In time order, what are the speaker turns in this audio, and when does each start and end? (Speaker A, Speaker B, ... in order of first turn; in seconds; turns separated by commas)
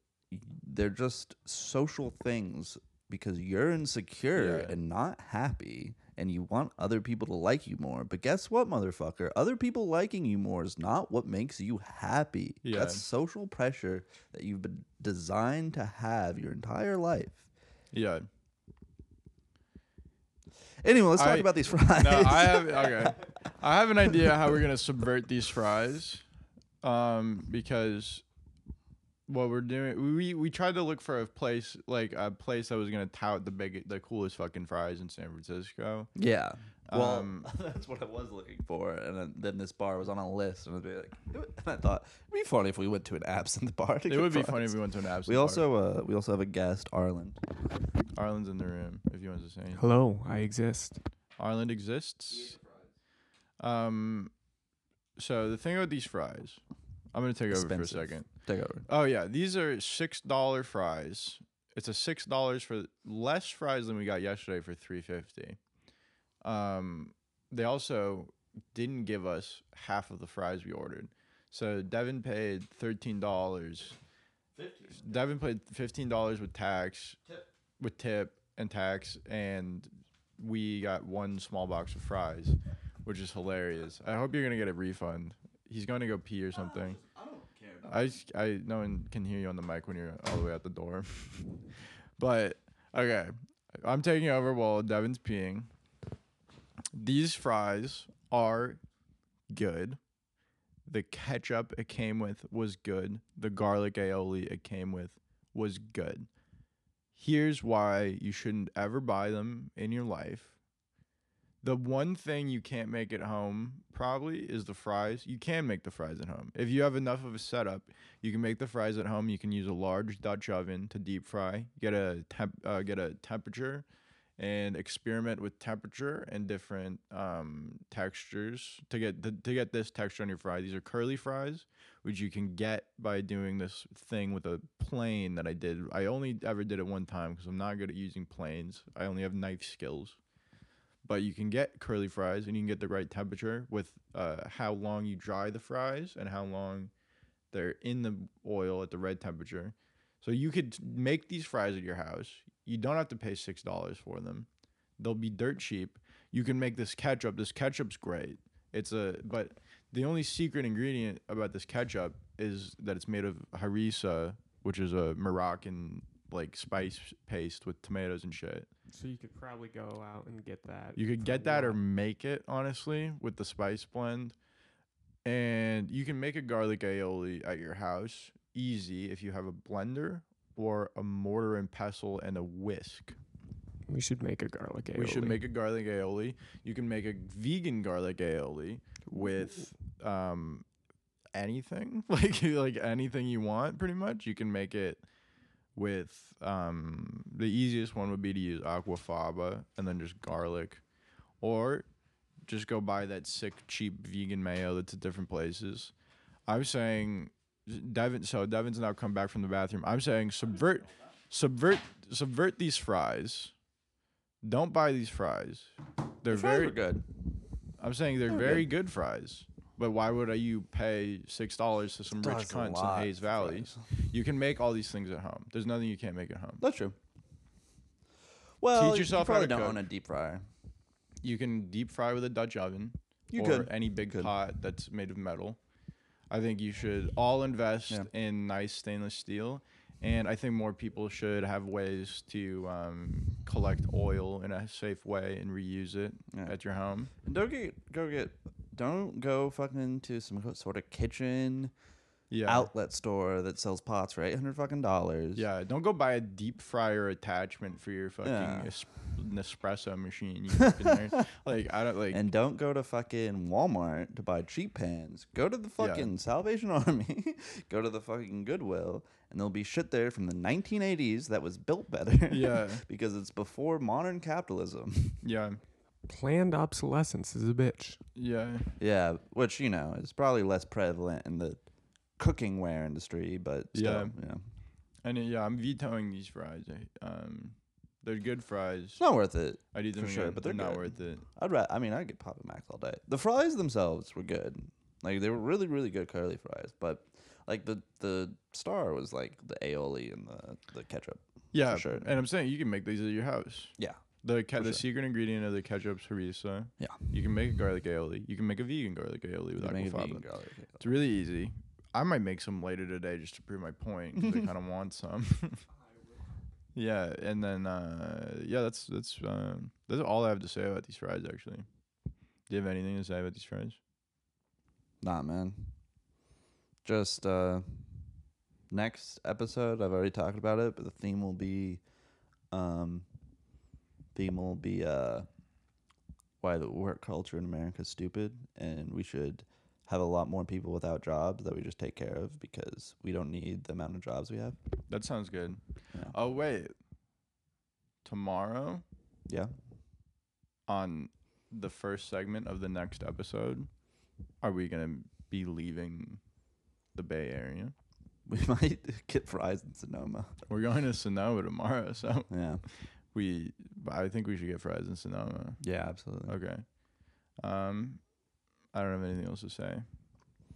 Speaker A: 0.3-17.5, Speaker B: 4.3-4.8, Speaker B: 12.6-13.0, Speaker B: 17.9-18.3, Speaker A: 20.8-23.1, Speaker B: 21.2-26.2, Speaker B: 26.8-28.2, Speaker B: 29.3-36.1, Speaker A: 36.1-47.4, Speaker B: 36.9-37.5, Speaker B: 44.1-45.7, Speaker B: 48.1-49.8, Speaker C: 49.7-51.0, Speaker B: 51.4-52.6, Speaker B: 53.6-54.3, Speaker B: 55.2-56.6, Speaker B: 57.1-58.3, Speaker A: 57.5-58.9, Speaker B: 58.9-65.6, Speaker B: 66.4-74.0, Speaker A: 74.5-75.1, Speaker B: 74.9-77.2, Speaker B: 77.8-87.0, Speaker A: 86.5-88.2, Speaker B: 87.9-91.5, Speaker B: 92.2-95.7, Speaker B: 96.9-98.8, Speaker B: 99.5-100.0, Speaker B: 100.9-106.3, Speaker B: 107.2-110.5, Speaker B: 111.6-123.9, Speaker B: 124.4-140.2, Speaker B: 141.1-146.9, Speaker B: 147.5-154.5, Speaker B: 155.0-168.7, Speaker C: 168.9-171.8, Speaker B: 170.9-174.4, Speaker B: 175.2-183.2, Speaker C: 183.9-185.4, Speaker B: 184.9-190.7, Speaker B: 191.3-195.0, Speaker B: 195.8-200.8, Speaker B: 201.4-201.9, Speaker B: 202.5-205.9, Speaker B: 206.5-213.5, Speaker B: 214.4-216.8, Speaker A: 216.3-217.1, Speaker B: 217.8-226.6, Speaker A: 218.3-218.7, Speaker A: 222.1-223.8, Speaker A: 226.6-227.0, Speaker A: 228.6-230.5, Speaker B: 228.7-229.8, Speaker B: 231.2-235.6, Speaker A: 233.3-234.3, Speaker B: 236.3-247.1, Speaker A: 247.2-251.7, Speaker B: 252.3-252.7, Speaker A: 252.5-255.5, Speaker B: 255.3-262.2, Speaker A: 258.2-258.7, Speaker A: 260.6-261.2, Speaker A: 262.1-275.2, Speaker B: 265.8-266.1, Speaker B: 272.3-272.8, Speaker B: 275.2-275.6, Speaker C: 276.1-278.0, Speaker B: 278.2-278.7, Speaker A: 278.8-281.6, Speaker A: 282.2-284.4, Speaker B: 283.7-284.2, Speaker B: 285.0-289.0, Speaker A: 289.0-302.1, Speaker B: 289.7-291.3, Speaker B: 301.5-310.3, Speaker A: 303.8-304.0, Speaker A: 304.6-304.8, Speaker A: 309.6-310.8, Speaker B: 310.8-315.6, Speaker B: 316.7-321.7, Speaker B: 322.5-323.8, Speaker A: 325.0-325.7, Speaker A: 326.8-327.6, Speaker A: 328.7-331.8, Speaker A: 332.5-333.1, Speaker A: 334.1-335.3, Speaker A: 336.4-344.6, Speaker B: 344.9-345.6, Speaker B: 346.1-346.7, Speaker B: 348.1-348.8, Speaker A: 349.3-349.5, Speaker B: 350.7-353.7, Speaker B: 354.4-356.2, Speaker B: 356.9-357.7, Speaker A: 358.3-360.3, Speaker B: 360.5-365.6, Speaker A: 362.3-362.6, Speaker A: 365.6-366.4, Speaker B: 366.3-366.7, Speaker B: 367.4-368.0, Speaker B: 368.7-369.9